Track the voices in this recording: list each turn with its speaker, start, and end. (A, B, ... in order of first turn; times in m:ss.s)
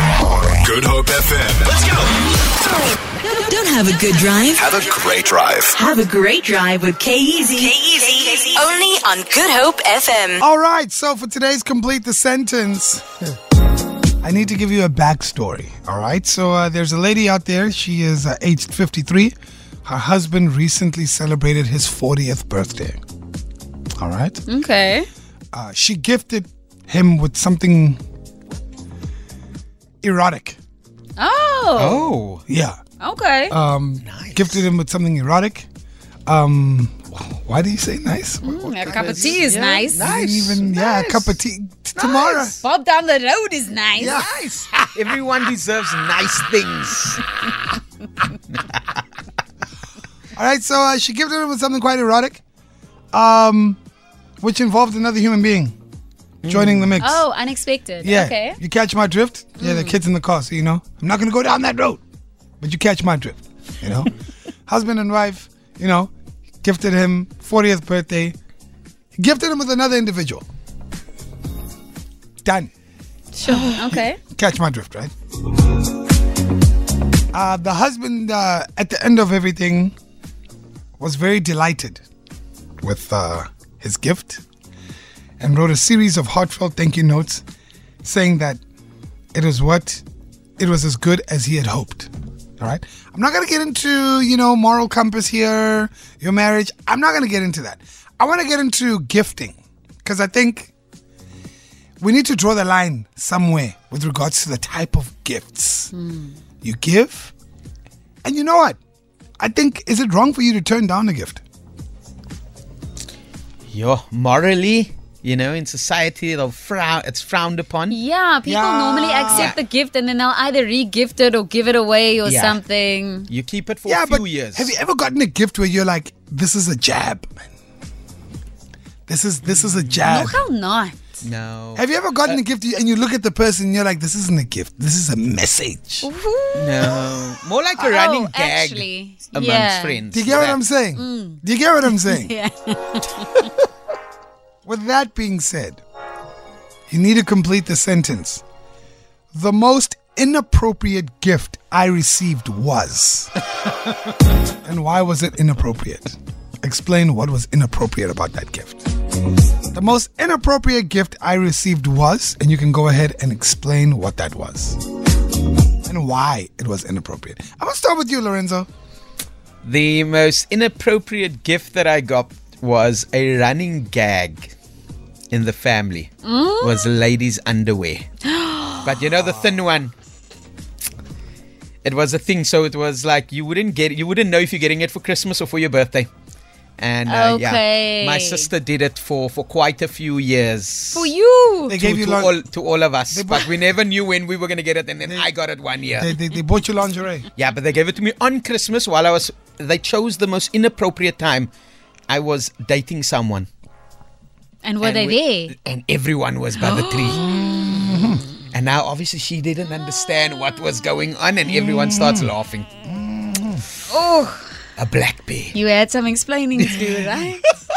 0:00.4-0:02.2 A
0:03.3-0:04.6 B
0:04.5-0:05.8 A
0:05.8-0:10.4 B
0:10.4-0:13.0 C
0:14.2-0:19.3 C
0:19.8-0:23.0 C
0:24.0-0:24.4 C
0:24.5-0:25.1 D
0:25.5-0:28.0 C
0:30.0-0:30.6 C
0:31.2-0:32.1 D
0:31.8-0:32.4 E
0:32.5-0:32.8 C
0:33.0-0:33.6 D
0:33.5-0:35.7 C
0:34.0-0:34.6 E
0:36.3-0:42.6 C
0:38.4-0:40.1 D
0:38.8-0:41.4 E
0:42.0-0:42.5 E
0:42.4-0:44.2 D
0:44.0-0:45.2 C
0:44.0-0:47.2 E
0:48.5-0:48.8 E
0:50.4-0:52.4 C
0:53.1-0:53.8 C
0:54.4-0:55.7 C
0:56.4-0:57.0 E
0:56.4-0:57.3 C
0:57.0-0:58.6 D
0:58.0-1:02.0 C
0:59.6-1:00.0 D
1:02.6-1:04.1 C
1:04.7-1:06.1 C
1:06.6-1:08.4 C
1:09.2-1:10.4 C
1:12.4-1:12.7 C
1:13.4-1:14.2 D
1:13.4-1:13.8 E
1:13.8-1:15.1 C
1:17.3-1:19.9 C
1:21.0-1:22.0 C
1:22.8-1:24.4 C
1:25.4-1:27.4 C
1:28.0-1:28.6 C
1:29.3-1:30.0 C
1:30.6-1:40.7 C
1:42.0-1:45.9 C
1:45.9-1:46.4 D
1:46.6-1:47.3 C
1:48.2-1:48.8 C
1:49.4-1:51.4 C
1:53.7-1:58.0 E
1:57.9-2:03.3 D
1:58.5-1:59.6 C
1:59.3-1:59.6 E
2:02.2-2:02.6 E
2:03.3-2:04.7 E
2:03.9-2:07.5 C
2:09.1-2:10.4 C
2:09.4-2:10.0 E
2:10.0-2:11.0 D
2:11.2-2:12.4 E
2:11.8-2:16.1 C
2:16.0-2:17.0 D
2:16.6-2:20.6 E
2:17.8-2:20.0 D
2:20.1-2:22.4 C
2:21.0-2:23.5 D
2:24.6-2:25.8 C
2:26.9-2:28.4 C
2:29.3-2:33.3 C
2:34.6-2:38.9 C
2:39.7-2:44.8 C
2:45.8-2:48.7 C
2:49.6-2:54.5 E
2:55.3-2:58.1 E
2:56.2-2:56.9 D
2:58.2-2:58.9 D
2:58.8-2:59.9 E
3:01.8-3:06.1 E
3:06.8-3:11.1 E
3:07.1-3:08.5 D
3:10.9-3:11.8 D
3:11.7-3:12.4 C
3:11.7-3:16.1 E
3:13.1-3:13.6 C
3:15.9-3:17.3 C
3:17.4-3:21.5 E
3:22.1-3:23.5 E
3:24.6-3:25.6 D
3:24.8-3:27.2 E
3:26.6-3:27.6 D
3:27.1-3:28.3 C
3:28.5-3:32.7 E
3:31.5-3:32.3 C
3:32.8-3:33.6 C
3:33.9-3:34.5 D
3:34.8-3:35.6 E
3:35.5-3:37.5 D
3:36.6-3:37.4 E